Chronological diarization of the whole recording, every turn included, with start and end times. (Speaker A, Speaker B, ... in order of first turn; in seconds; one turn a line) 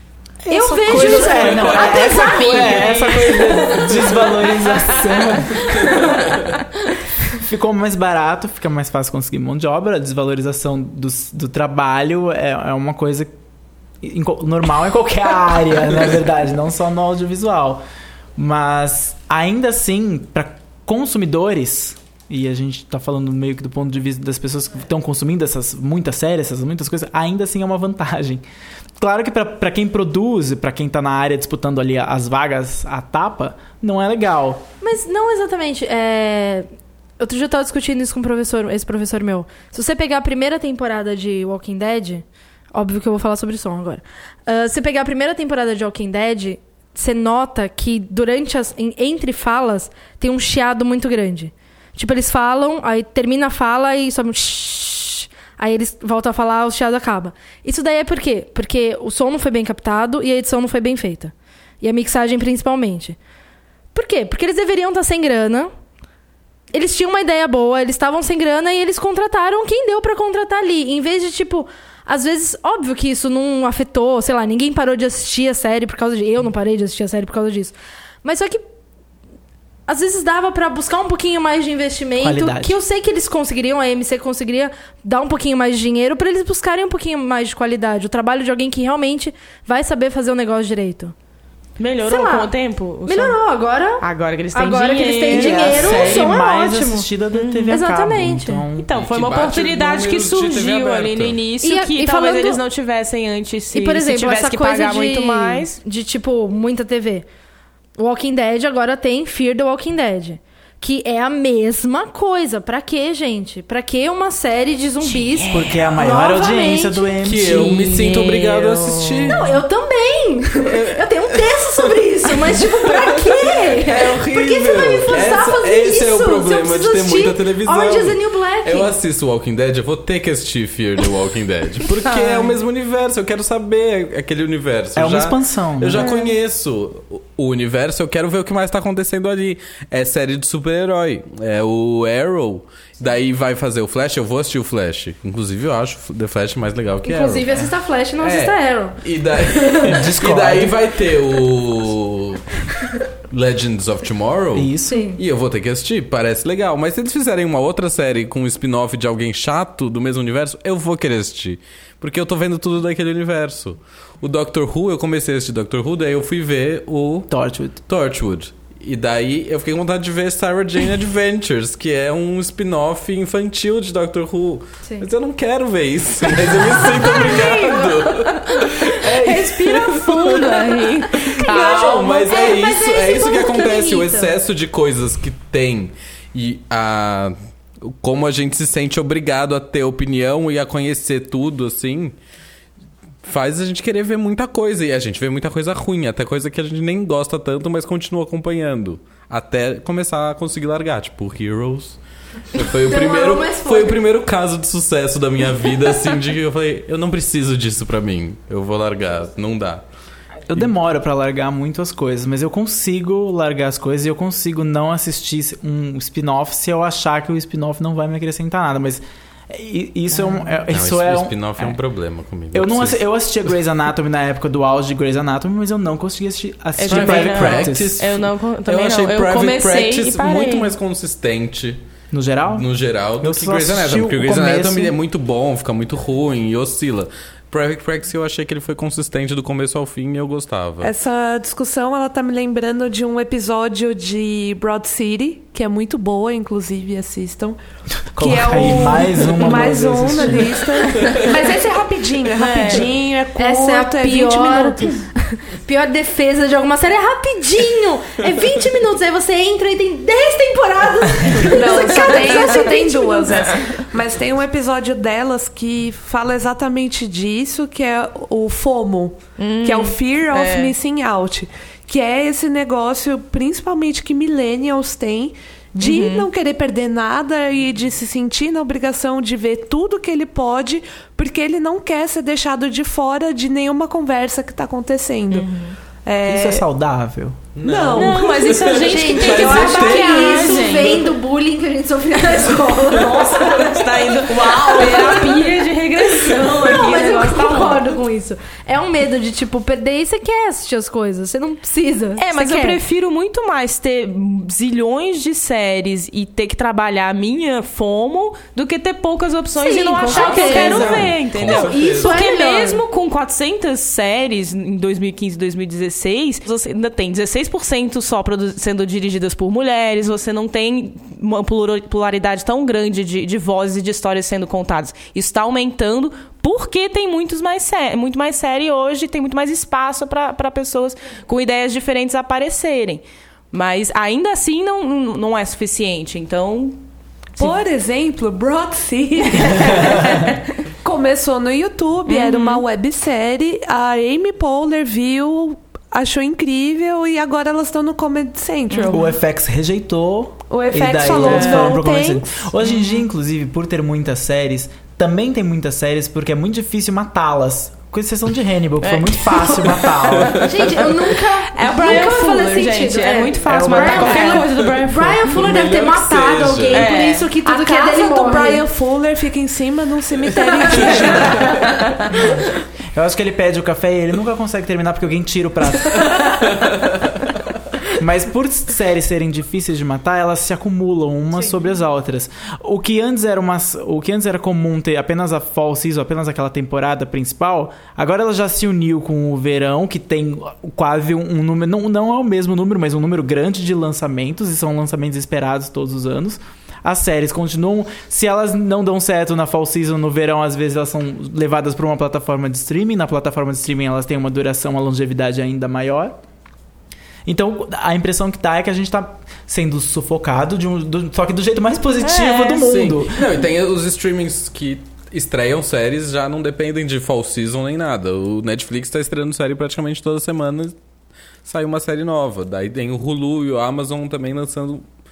Speaker A: 0.4-5.9
Speaker B: 0.5-3.5
Speaker C: 0.9-5.8
Speaker D: 1.0-1.8
Speaker D: 5.9-6.4
Speaker A: 7.3-13.3
Speaker A: 14.0-17.8
Speaker A: 18.4-28.4
Speaker A: 29.0-34.6
Speaker B: 34.8-36.7
Speaker B: 37.2-63.2
Speaker B: 63.9-65.7
Speaker B: 66.7-78.6
Speaker B: 79.9-91.1
Speaker A: 82.2-82.8
Speaker C: 91.8-93.4
Speaker B: 92.0-92.5
Speaker B: 93.1-94.0
Speaker C: 94.0-96.1
Speaker B: 94.5-97.1
Speaker A: 95.3-98.9
Speaker C: 97.3-97.8
Speaker B: 97.7-98.6
Speaker C: 98.8-105.8
Speaker D: 98.9-101.4
Speaker B: 101.6-102.6
Speaker B: 103.7-107.3
Speaker B: 108.0-117.1
Speaker C: 115.0-115.9
Speaker A: 115.5-117.7
Speaker D: 117.2-119.5
Speaker C: 117.4-119.4
Speaker B: 119.2-128.9
Speaker D: 120.7-152.6
Speaker C: 132.1-132.5
Speaker A: 134.9-136.1
Speaker C: 135.9-136.3
Speaker B: 147.0-149.9
Speaker A: 149.9-150.8
Speaker D: 153.1-167.3
Speaker A: 154.5-155.0
Speaker B: 154.9-155.2
Speaker A: 167.3-167.8
Speaker D: 167.9-187.3
Speaker C: 176.8-182.5
Speaker B: 181.1-184.3
Speaker D: 187.9-192.2
Speaker D: 193.2-202.0
Speaker D: 202.5-209.8
Speaker B: 202.6-204.0
Speaker A: 210.5-221.3
Speaker D: 220.7-223.0
Speaker A: 222.5-227.9
Speaker C: 226.8-230.7
Speaker D: 226.9-231.8
Speaker A: 232.1-232.7
Speaker D: 232.5-240.9
Speaker A: 233.2-234.9
Speaker E: 240.8-247.6
Speaker A: 248.1-250.5
Speaker E: 248.2-254.9
Speaker D: 251.0-251.2
Speaker C: 252.3-252.9
Speaker B: 253.3-263.6
Speaker E: 261.4-285.5
Speaker C: 261.7-262.8
Speaker C: 263.3-263.6
Speaker C: 269.4-270.7
Speaker C: 275.8-276.3
Speaker C: 285.3-285.8
Speaker E: 286.0-286.6
Speaker A: 286.2-287.5
Speaker D: 287.5-289.2
Speaker E: 287.6-291.1
Speaker C: 287.9-291.1
Speaker B: 288.9-293.9
Speaker C: 292.5-297.9
Speaker E: 294.3-295.4
Speaker B: 296.3-302.8
Speaker C: 302.2-336.8
Speaker B: 309.6-312.8
Speaker D: 310.1-312.3
Speaker E: 337.4-349.1
Speaker C: 339.6-340.3
Speaker C: 342.1-342.6
Speaker C: 348.7-349.1
Speaker A: 348.9-360.4
Speaker E: 350.5-352.5
Speaker C: 351.0-351.8
Speaker C: 352.6-353.0
Speaker C: 358.8-365.3
Speaker B: 360.4-368.6
Speaker A: 363.4-364.4
Speaker D: 365.2-366.9
Speaker C: 366.7-367.3
Speaker E: 367.4-371.7
Speaker C: 370.7-372.1
Speaker A: 372.1-376.2
Speaker D: 376.6-377.0
Speaker A: 377.9-406.2
Speaker A: 407.2-413.3
Speaker C: 412.0-412.7
Speaker D: 412.6-420.8
Speaker D: 421.4-424.8